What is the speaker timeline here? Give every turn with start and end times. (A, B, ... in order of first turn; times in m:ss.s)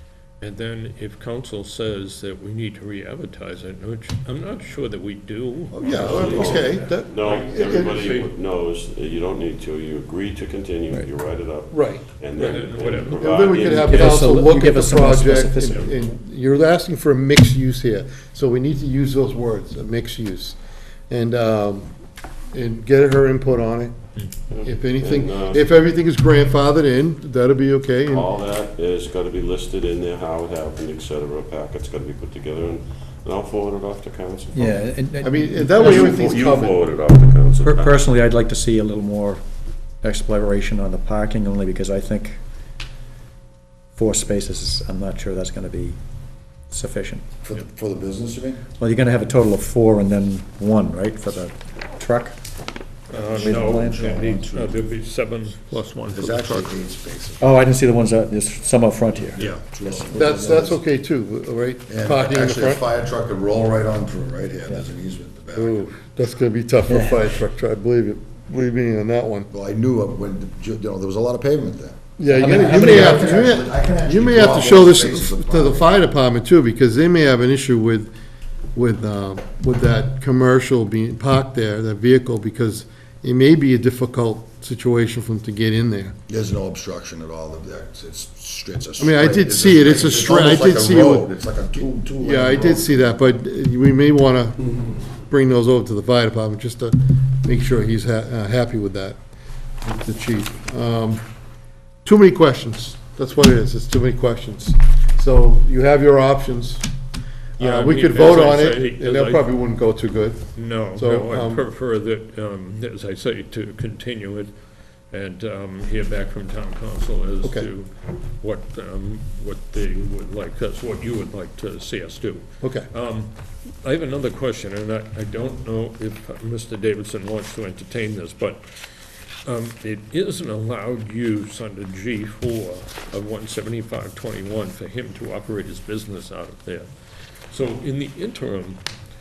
0:00.4-0:08.3 A
0:05.7-0:08.0 B
0:05.9-0:14.5 C
0:11.7-0:12.0 B
0:12.3-0:13.3 A
0:13.1-0:20.6 B
0:13.7-0:15.9 D
0:21.1-0:21.9 B
0:22.5-0:24.1 B
0:24.2-0:24.5 A
0:24.5-0:25.7 C
0:24.6-0:28.3 B
0:28.1-0:34.6 C
0:34.5-0:36.2 D
0:35.2-0:36.8 B
0:35.8-0:38.0 C
0:37.6-0:39.4 D
0:40.0-0:42.4 D
0:44.0-0:46.0 D
0:46.7-0:47.2 D
0:47.4-0:48.6 E
0:48.8-0:52.4 D
0:53.1-0:56.7 A
0:53.1-0:54.8 E
0:53.3-0:54.5 D
0:56.1-0:57.5 E
0:57.4-0:59.5 D
0:59.4-1:00.8 E
1:00.1-1:02.8 B
1:01.9-1:05.9 E
1:05.6-1:09.5 B
1:06.9-1:07.2 D
1:09.5-1:16.0 E
1:12.2-1:18.1 B
1:12.3-1:13.4 D
1:18.7-1:26.2 B
1:26.3-1:33.2 E
1:29.0-1:31.3 B
1:32.2-1:39.2 B
1:39.8-1:41.2 B
1:42.0-1:46.9 B
1:47.6-1:49.5 A
1:47.6-1:51.6 B
1:50.5-2:18.9 A
1:57.4-1:57.7 B
2:02.6-2:02.9 B